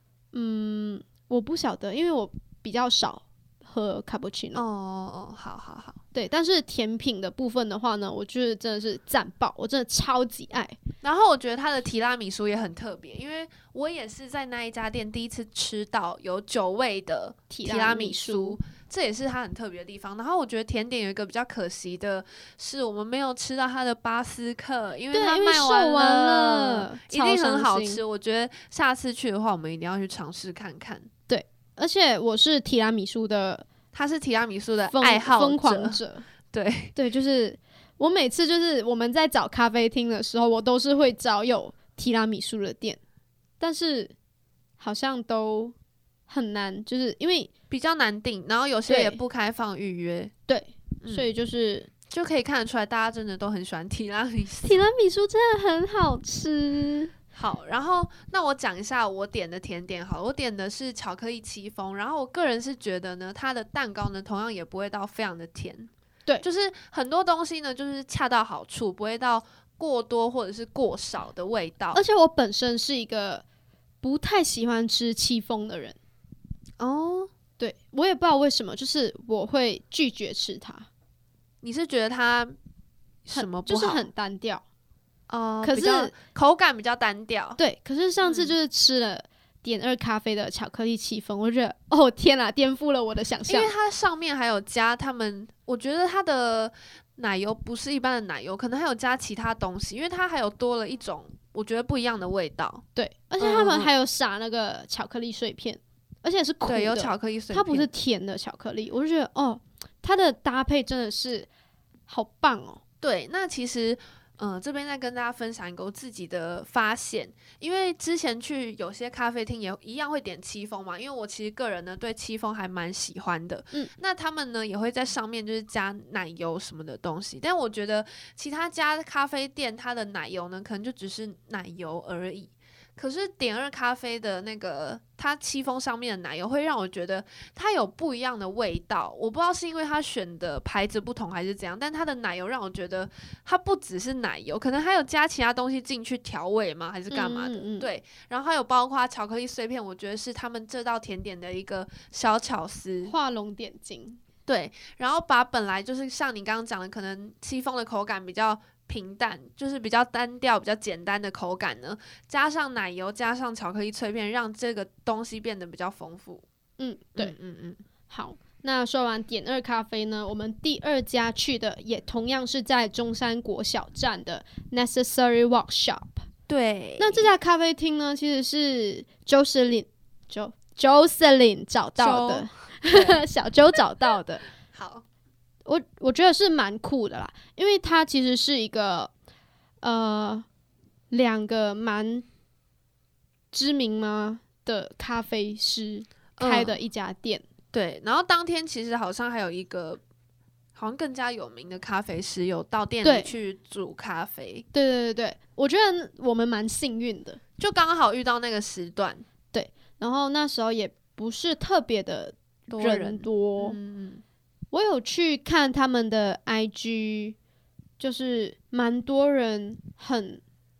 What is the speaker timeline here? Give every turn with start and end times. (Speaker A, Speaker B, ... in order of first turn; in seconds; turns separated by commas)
Speaker A: 0.3-4.6, Speaker B: 4.5-6.0, Speaker A: 6.1-10.8, Speaker B: 11.0-31.1, Speaker A: 17.5-18.6, Speaker A: 25.1-28.0, Speaker A: 31.3-33.7, Speaker B: 33.9-36.0, Speaker A: 34.9-36.3, Speaker B: 36.5-36.9, Speaker A: 36.9-43.0, Speaker A: 43.6-44.1, Speaker A: 44.8-45.7, Speaker A: 46.3-47.5, Speaker B: 47.7-50.3, Speaker A: 48.9-49.2, Speaker A: 50.5-51.9, Speaker B: 52.1-54.8, Speaker A: 54.6-57.1, Speaker B: 57.3-65.9, Speaker B: 66.4-72.0, Speaker A: 71.9-73.4, Speaker A: 74.0-76.0, Speaker B: 76.8-77.3, Speaker A: 77.6-80.9, Speaker B: 81.6-82.6, Speaker B: 83.2-84.0, Speaker A: 83.3-84.6, Speaker B: 85.3-87.6, Speaker A: 85.6-86.1, Speaker A: 87.6-93.7, Speaker B: 88.2-88.5, Speaker B: 93.5-102.8, Speaker A: 102.9-111.5, Speaker B: 103.4-103.9, Speaker B: 106.6-107.9, Speaker A: 112.1-112.8, Speaker B: 113.0-153.1, Speaker A: 147.1-147.9, Speaker A: 153.1-154.2, Speaker B: 154.5-166.4, Speaker A: 166.8-167.3, Speaker B: 167.2-167.8, Speaker A: 168.1-176.2, Speaker B: 176.5-177.3, Speaker A: 177.0-184.4, Speaker B: 182.0-183.2, Speaker B: 184.7-185.0, Speaker A: 185.6-189.1, Speaker A: 189.8-190.4, Speaker A: 191.1-192.2, Speaker A: 193.5-197.4, Speaker B: 196.4-196.8, Speaker B: 197.7-200.0, Speaker B: 200.7-204.6, Speaker A: 203.0-203.3, Speaker A: 204.7-207.4, Speaker B: 207.6-209.2, Speaker A: 209.5-213.8, Speaker B: 212.7-214.2, Speaker A: 214.7-217.3, Speaker A: 218.0-220.4